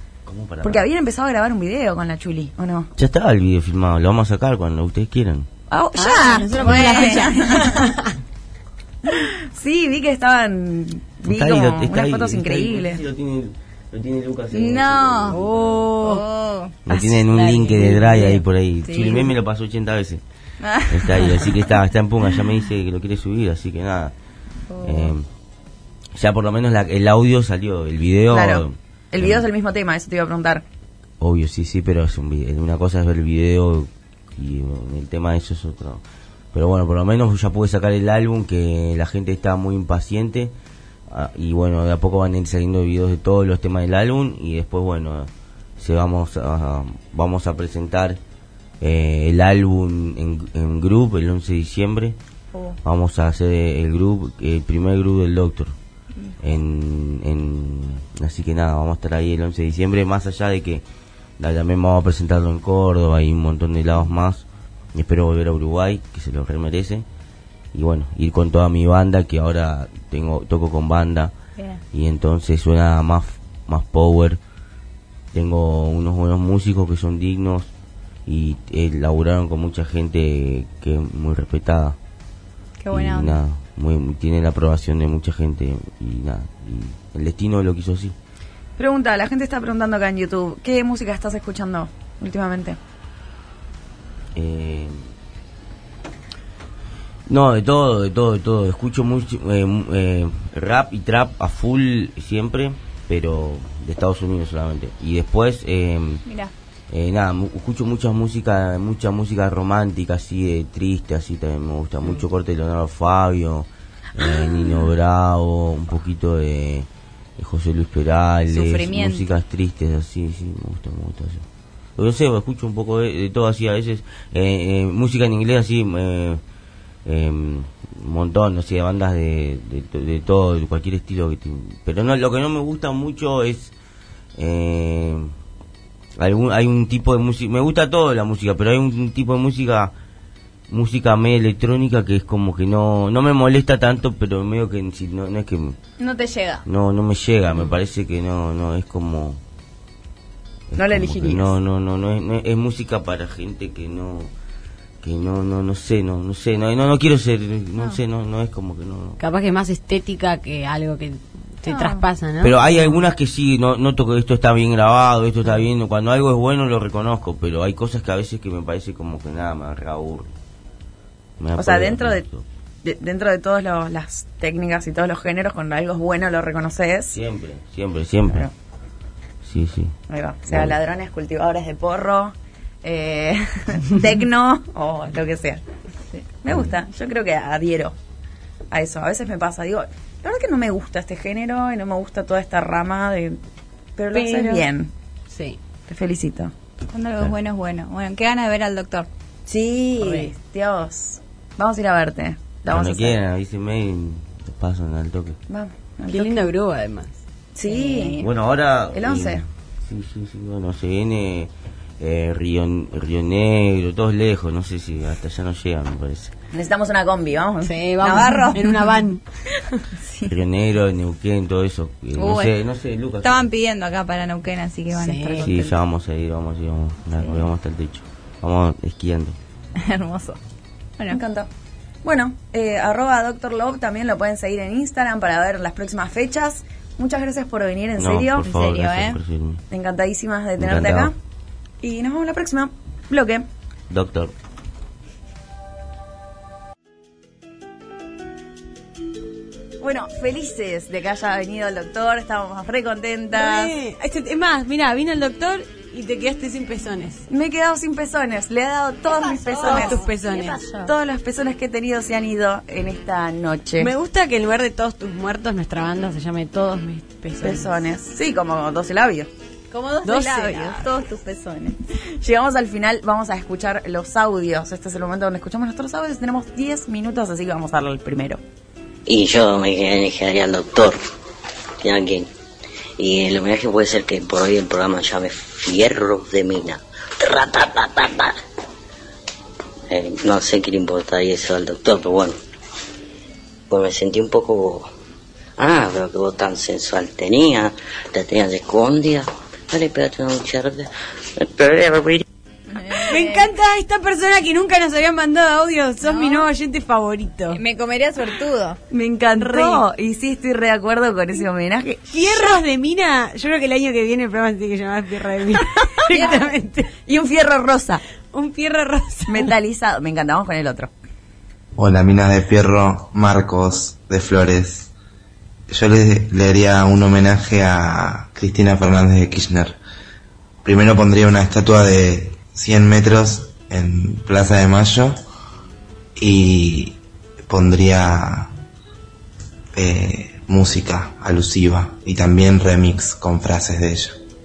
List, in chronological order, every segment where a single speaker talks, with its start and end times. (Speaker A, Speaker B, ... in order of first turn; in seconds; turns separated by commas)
Speaker A: 0.2-0.8, Speaker B: 0.6-2.9, Speaker A: 3.0-5.5, Speaker B: 5.7-7.8, Speaker C: 6.0-7.7, Speaker D: 6.1-8.0, Speaker B: 9.1-13.0, Speaker A: 11.2-15.9, Speaker C: 14.5-15.4, Speaker D: 15.3-16.2, Speaker C: 16.0-16.7, Speaker A: 16.9-20.2, Speaker B: 16.9-17.2, Speaker D: 17.3-18.4, Speaker C: 18.8-19.3, Speaker C: 20.6-21.3, Speaker A: 20.9-24.1, Speaker C: 24.7-25.1, Speaker A: 24.8-25.2, Speaker A: 26.1-29.4, Speaker B: 28.3-30.6, Speaker A: 31.2-40.5, Speaker A: 41.1-48.2, Speaker A: 48.8-52.1, Speaker A: 52.8-55.7, Speaker A: 56.4-60.8, Speaker A: 61.4-67.0, Speaker A: 67.7-71.3, Speaker A: 71.9-74.4, Speaker A: 75.3-77.7, Speaker A: 78.3-82.0, Speaker C: 82.8-83.4, Speaker A: 82.9-88.1, Speaker B: 88.8-92.8, Speaker A: 94.3-95.0, Speaker A: 97.3-106.2, Speaker C: 106.2-106.5, Speaker A: 106.9-116.9, Speaker A: 117.4-121.4, Speaker C: 118.5-119.3, Speaker A: 122.0-126.4, Speaker A: 127.0-133.7, Speaker A: 134.4-135.3, Speaker A: 136.2-139.9, Speaker A: 140.7-145.8, Speaker C: 146.0-146.6, Speaker A: 146.6-149.4, Speaker A: 150.7-154.3, Speaker B: 150.8-151.5, Speaker A: 155.0-159.2, Speaker D: 159.2-163.0, Speaker C: 161.7-162.0, Speaker A: 162.4-170.3, Speaker A: 171.4-172.4, Speaker B: 171.6-172.2, Speaker B: 172.8-177.2, Speaker A: 177.1-178.5, Speaker A: 179.4-179.9, Speaker B: 180.1-185.6, Speaker A: 180.5-180.7, Speaker B: 186.4-187.9, Speaker B: 188.7-193.4, Speaker B: 193.9-194.9, Speaker D: 194.1-194.7, Speaker D: 195.3-195.6, Speaker B: 195.9-196.5, Speaker C: 196.9-199.1, Speaker B: 199.5-203.2, Speaker D: 200.0-200.3, Speaker A: 202.7-205.4, Speaker B: 205.5-206.5, Speaker D: 206.1-207.2, Speaker B: 207.5-208.2, Speaker C: 207.7-208.2, Speaker A: 208.2-216.3, Speaker B: 208.9-209.4, Speaker B: 216.5-218.6, Speaker D: 217.6-219.8, Speaker C: 220.0-220.3, Speaker A: 220.2-223.5, Speaker C: 222.2-222.5, Speaker C: 223.2-225.6, Speaker D: 224.9-225.5, Speaker A: 225.4-229.3, Speaker C: 229.8-230.4, Speaker B: 231.1-231.5, Speaker B: 232.0-238.4, Speaker A: 238.0-239.6, Speaker C: 238.4-239.2, Speaker B: 239.7-241.1, Speaker A: 240.6-241.1, Speaker B: 241.8-243.4, Speaker A: 243.9-244.3, Speaker B: 249.8-253.7, Speaker D: 253.3-257.2, Speaker B: 257.3-260.1, Speaker C: 259.1-260.8, Speaker D: 259.6-260.9, Speaker B: 260.8-263.9, Speaker D: 263.8-267.7, Speaker B: 267.4-269.3, Speaker C: 269.7-271.8, Speaker D: 270.0-270.9, Speaker B: 272.1-278.4, Speaker E: 279.1-281.0, Speaker E: 281.8-282.3, Speaker E: 283.0-288.4, Speaker E: 289.9-292.4, Speaker E: 293.7-294.9, Speaker E: 295.6-302.2, Speaker C: 302.7-303.5, Speaker D: 303.0-307.6, Speaker C: 306.0-306.5, Speaker C: 307.5-308.8, Speaker B: 308.9-312.1, Speaker D: 309.4-309.8, Speaker D: 312.1-316.9, Speaker B: 316.0-316.5, Speaker B: 317.0-318.0, Speaker D: 318.3-319.5, Speaker B: 319.3-320.9, Speaker F: 321.8-324.9, Speaker F: 325.7-329.8, Speaker F: 330.6-335.2, Speaker F: 336.1-338.5, Speaker F: 339.7-344.2